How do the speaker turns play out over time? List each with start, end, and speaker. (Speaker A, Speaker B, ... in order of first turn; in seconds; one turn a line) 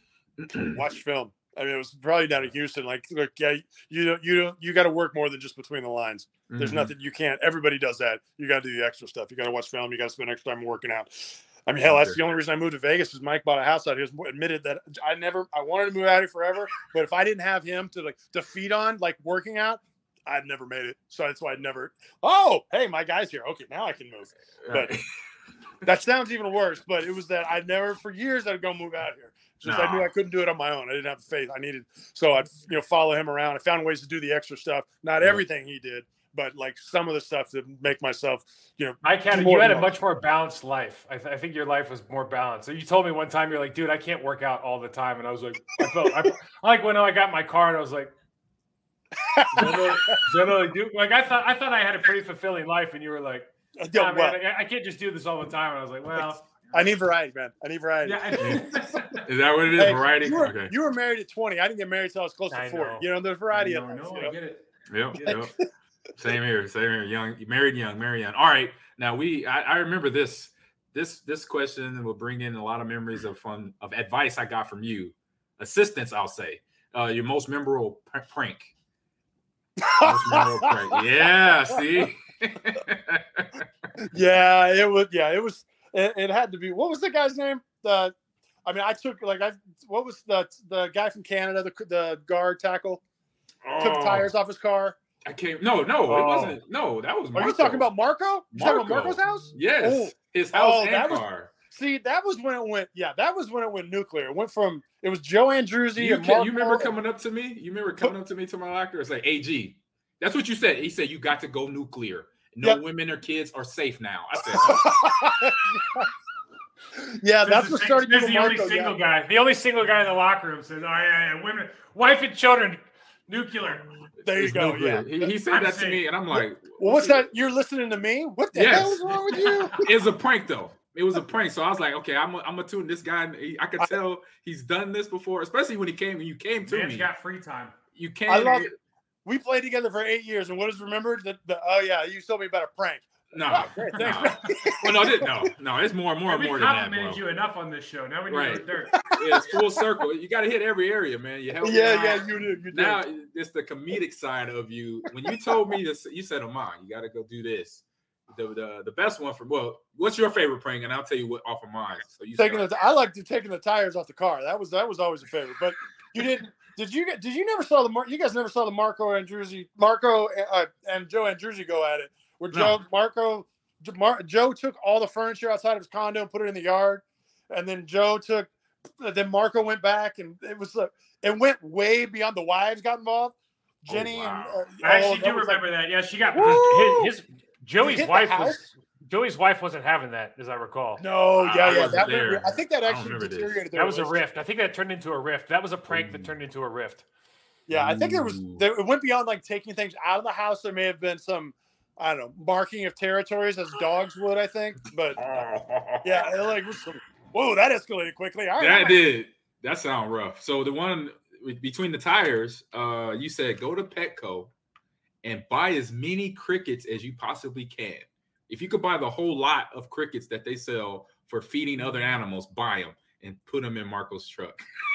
Speaker A: 0.4-0.8
Speaker B: 0.5-24.9
Speaker A: 6.5-6.9
Speaker A: 11.8-12.2
Speaker A: 24.6-25.1
Speaker B: 25.9-39.9
Speaker A: 29.6-30.1
Speaker C: 39.0-48.1
Speaker B: 49.2-50.2
Speaker C: 49.5-56.9
Speaker B: 53.8-54.4
Speaker B: 56.1-59.0
Speaker C: 58.0-59.2
Speaker A: 59.2-60.7
Speaker B: 59.7-64.3
Speaker C: 62.5-64.6
Speaker A: 64.9-65.5
Speaker C: 65.1-65.4
Speaker B: 65.2-65.5
Speaker A: 66.2-78.7
Speaker B: 79.8-80.7
Speaker A: 80.0-83.6
Speaker B: 84.1-88.1
Speaker B: 88.6-93.0
Speaker A: 93.6-94.3
Speaker B: 93.8-95.0
Speaker A: 95.2-97.9
Speaker B: 96.1-96.6
Speaker B: 97.3-106.9
Speaker A: 98.5-101.5
Speaker A: 106.0-114.8
Speaker B: 114.4-116.1
Speaker B: 117.0-118.9
Speaker C: 117.4-123.9
Speaker A: 124.2-127.2
Speaker B: 124.2-125.3
Speaker C: 125.5-126.0
Speaker B: 126.3-129.8
Speaker A: 128.5-137.1
Speaker C: 129.4-129.6
Speaker C: 136.7-137.7
Speaker A: 137.9-138.7
Speaker B: 138.3-138.7
Speaker B: 139.2-145.4
Speaker A: 143.3-147.2
Speaker C: 146.3-148.9
Speaker A: 148.3-162.7
Speaker B: 149.1-149.6
Speaker B: 151.6-153.0
Speaker B: 155.3-155.6
Speaker B: 162.4-185.6
Speaker A: 172.5-172.8
Speaker A: 183.9-184.6
Speaker C: 184.8-191.0
Speaker B: 186.3-187.1
Speaker B: 187.8-188.6
Speaker B: 191.0-194.2
Speaker A: 191.4-193.6
Speaker C: 191.7-192.0
Speaker C: 193.7-197.0
Speaker A: 195.9-196.3
Speaker B: 197.7-205.2
Speaker A: 197.7-198.6
Speaker A: 205.2-206.3
Speaker B: 206.0-209.0
Speaker A: 208.6-214.5
Speaker A: 215.2-224.6